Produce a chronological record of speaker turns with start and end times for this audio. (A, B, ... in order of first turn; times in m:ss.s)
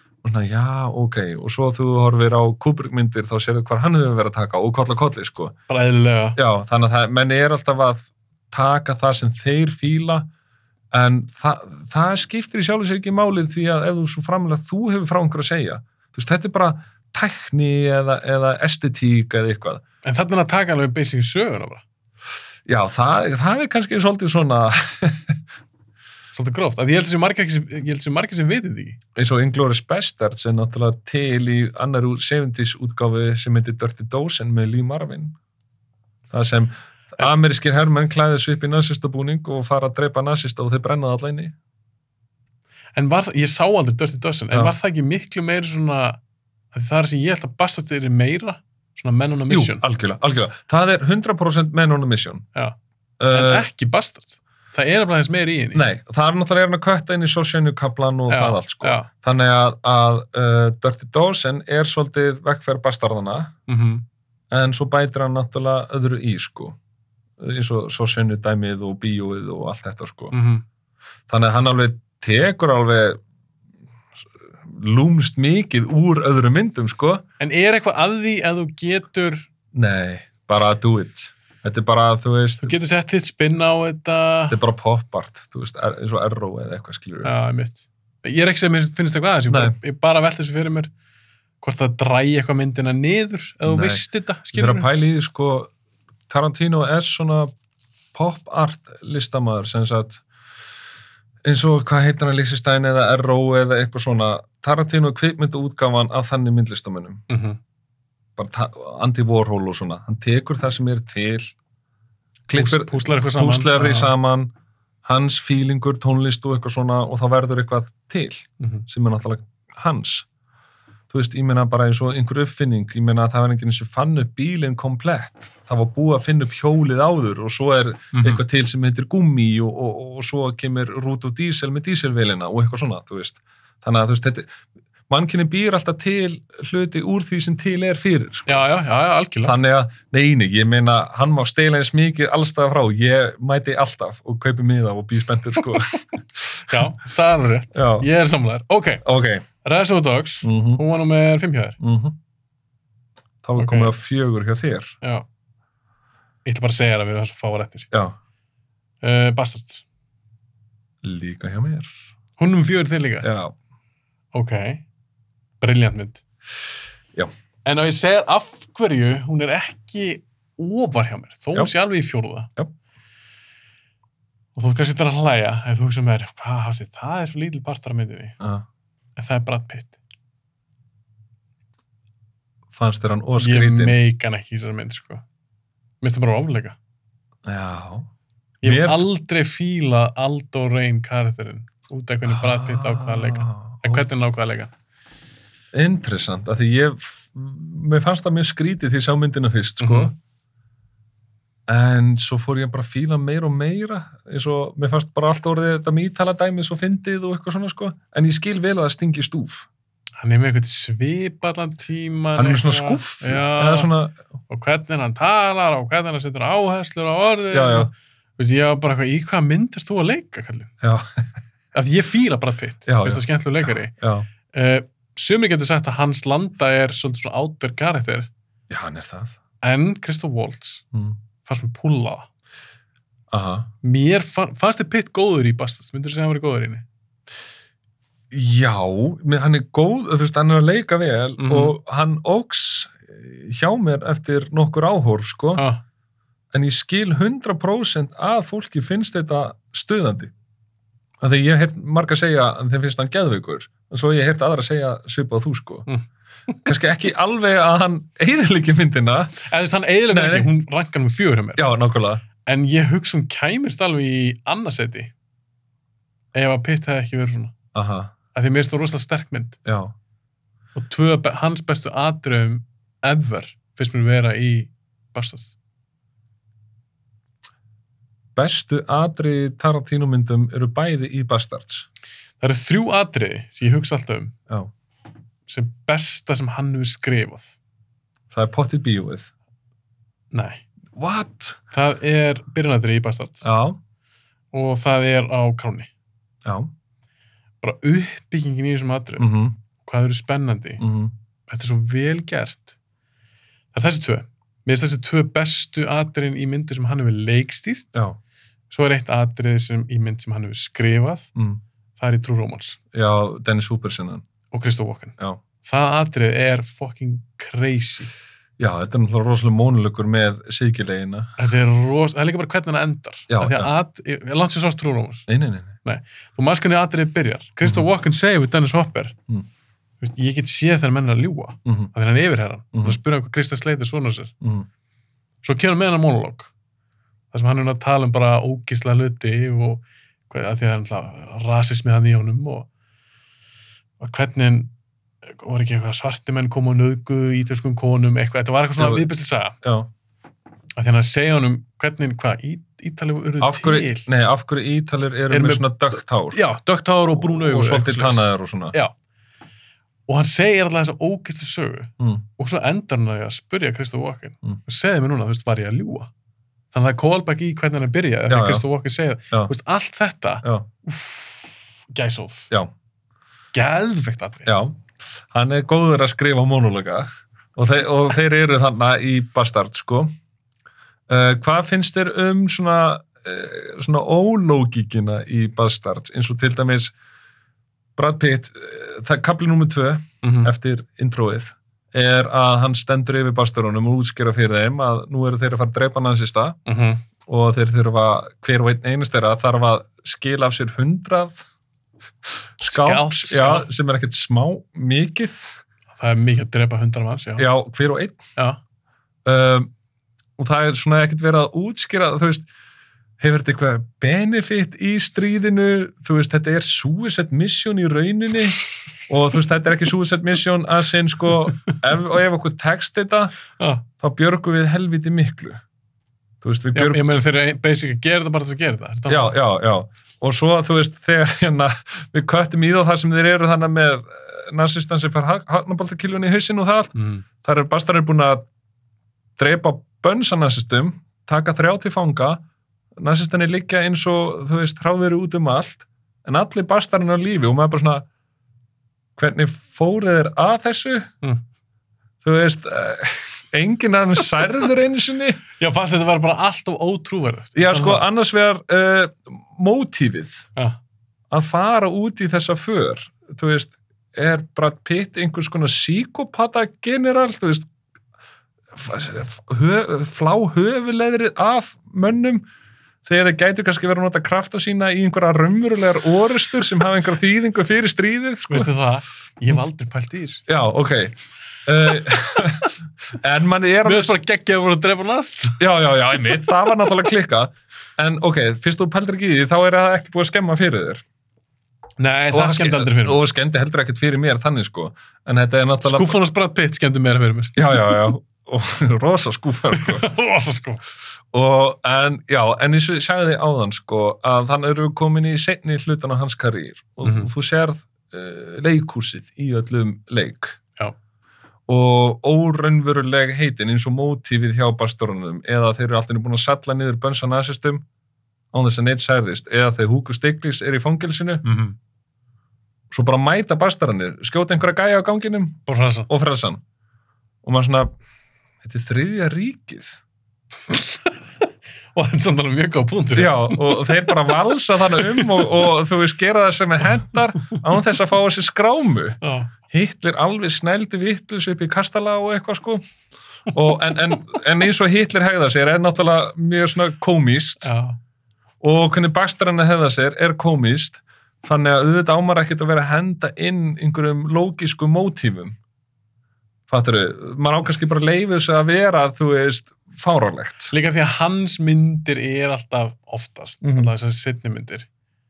0:00.2-0:05.6 A
0:05.7-0:06.4 B
0:06.4-0:10.3 A
0:10.9-0:19.8 A
0:20.0-0:21.8 B
0:22.6-0:25.4 A
0:26.3-0:29.0 B
0:29.2-0:35.3 A
0:36.3-0:41.5 A
0:43.0-0:46.2 B
0:46.7-0:49.8 B
0:49.5-0:52.5 A
0:53.2-0:53.7 A
0:53.3-0:55.8 B
0:55.7-1:03.5 A
0:58.3-0:59.1 B
1:03.7-1:04.0 B
1:04.5-1:06.8 A
1:07.4-1:10.3 A
1:10.3-1:10.6 B
1:11.3-1:13.2 A
1:14.6-1:17.2 A
1:17.4-1:19.5 B
1:19.7-1:22.8 A
1:22.6-1:24.6 B
1:24.5-1:27.3 A
1:27.2-1:30.9 B
1:29.5-1:29.8 A
1:31.6-1:34.9 B
1:33.6-1:35.7 A
1:36.3-1:37.5 A
1:38.1-1:40.2 A
1:41.4-1:47.2 A
1:47.3-1:47.6 B
1:48.4-1:51.5 A
1:52.5-1:54.5 A
1:52.5-1:54.1 B
1:55.0-2:00.2 A
1:58.6-1:58.8 B
2:01.1-2:14.5 A
2:08.1-2:08.4 B
2:15.1-2:18.6 A
2:18.5-2:19.6 B
2:19.4-2:26.8 A
2:26.7-2:29.0 B
2:27.7-2:28.1 A
2:29.0-2:29.4 A
2:29.6-2:31.8 B
2:30.4-2:30.8 A
2:31.8-2:32.2 A
2:33.4-2:35.0 A
2:33.6-2:33.9 B
2:36.4-2:37.9 B
2:39.0-2:39.8 B
2:41.0-2:41.9 A
2:42.4-2:43.3 B
2:43.2-2:43.5 A
2:44.3-2:44.8 B
2:45.6-2:46.2 B
2:47.6-2:52.5 B
2:54.5-2:58.4 B
2:58.4-2:58.6 A
2:59.2-3:00.0 B
3:02.7-3:04.0 A
3:03.4-3:05.2 B
3:06.0-3:06.8 B
3:07.4-3:08.1 A
3:08.6-3:14.7 B
3:08.6-3:09.0 A
3:12.3-3:14.0 A
3:15.7-3:20.1 A
3:19.8-3:20.1 B
3:21.7-3:29.7 A
3:30.2-3:33.9 B
3:32.4-3:34.2 A
3:34.5-3:40.7 B
3:37.5-3:37.9 A
3:40.8-3:41.3 A
3:41.7-3:43.9 B
3:42.9-3:44.3 A
3:44.5-3:48.3 B
3:48.7-3:49.4 A
3:49.6-3:50.8 B
3:51.4-3:52.3 B
3:53.3-3:53.7 A
3:53.8-3:56.8 B
3:58.3-4:05.6 A
4:01.4-4:01.8 B
4:05.5-4:05.8 B
4:06.5-4:10.3 A
4:11.2-4:15.9 A
4:16.6-4:19.4 A
4:19.4-4:21.6 B
4:20.1-4:20.5 A
4:21.6-4:22.2 A
4:22.4-4:25.1 B
4:26.3-4:27.5 B
4:27.7-4:28.1 A
4:28.3-4:29.6 B
4:29.6-4:29.9 A
4:30.7-4:35.5 B
4:38.4-4:41.8 A
4:42.4-4:44.3 B
4:45.5-4:47.6 B
4:48.3-4:49.3 A
4:50.3-4:50.6 B
4:50.9-4:51.6 A
4:51.7-4:53.5 B
4:53.4-4:53.8 A
4:54.5-4:55.9 B
4:56.4-4:56.7 A
4:57.6-4:59.3 B
4:59.2-4:59.6 A
4:59.8-5:00.8 B
5:00.8-5:01.1 A
5:01.5-5:02.7 B
5:03.7-5:07.9 B
5:08.7-5:11.3 B
5:11.4-5:11.6 A
5:11.9-5:12.8 B
5:12.9-5:14.2 A
5:14.5-5:18.1 B
5:18.6-5:21.3 A
5:21.4-5:25.3 B
5:23.3-5:23.7 A
5:25.3-5:25.7 A
5:25.8-5:29.2 B
5:30.0-5:34.3 B
5:31.6-5:31.9 A
5:32.7-5:33.0 A
5:34.4-5:34.7 A
5:35.4-5:36.5 B
5:37.3-5:42.7 B
5:44.0-5:44.7 B
5:45.2-5:49.6 B
5:48.8-5:49.0 A
5:49.6-5:49.9 A
5:50.8-5:54.1 B
5:53.4-5:56.4 A
5:55.3-5:55.7 B
5:56.3-5:58.9 B
5:57.2-5:58.7 A
6:00.1-6:06.1 B
6:06.7-6:12.5 B
6:08.3-6:08.6 A
6:13.5-6:14.5 B
6:14.4-6:14.8 A
6:15.3-6:20.1 A
6:21.1-6:26.9 A
6:28.0-6:36.6 A
6:30.2-6:30.5 B
6:36.6-6:37.0 B
6:37.2-6:41.4 A
6:42.6-6:45.6 A
6:42.6-6:43.7 B
6:45.9-6:47.5 B
6:47.4-6:48.2 A
6:49.2-6:49.7 A
6:50.4-6:52.5 A
6:53.2-7:03.4 A
7:03.6-7:03.8 B
7:04.0-7:05.6 A
7:06.4-7:07.0 A
7:06.7-7:09.4 B
7:09.1-7:18.4 A
7:16.9-7:17.2 B
7:19.4-7:22.4 A
7:23.0-7:28.0 A
7:29.2-7:31.1 A
7:32.2-7:35.4 A
7:35.6-7:38.0 B
7:37.6-7:40.5 A
7:41.3-7:47.7 A
7:48.7-7:52.4 A
7:53.0-7:58.7 A
7:58.5-8:00.4 B
8:00.5-8:04.2 A
8:03.8-8:05.6 B
8:05.6-8:11.0 A
8:12.0-8:13.2 B
8:12.3-8:16.2 A
8:15.8-8:17.9 B
8:17.6-8:20.1 A
8:19.7-8:20.8 B
8:21.3-8:30.6 A
8:27.0-8:27.3 B
8:31.7-8:37.8 A
8:38.5-8:41.4 A
8:41.4-8:41.8 B
8:42.9-8:46.6 A
8:45.7-8:46.1 B
8:47.4-8:47.9 A
8:48.6-8:50.0 A
8:50.7-8:51.2 B
8:51.9-8:55.5 B
8:53.1-9:02.8 A
8:59.2-8:59.5 B
9:03.5-9:07.7 A
9:07.6-9:08.0 B
9:08.6-9:15.6 A
9:16.7-9:20.7 A
9:20.7-9:24.9 B
9:23.6-9:23.9 A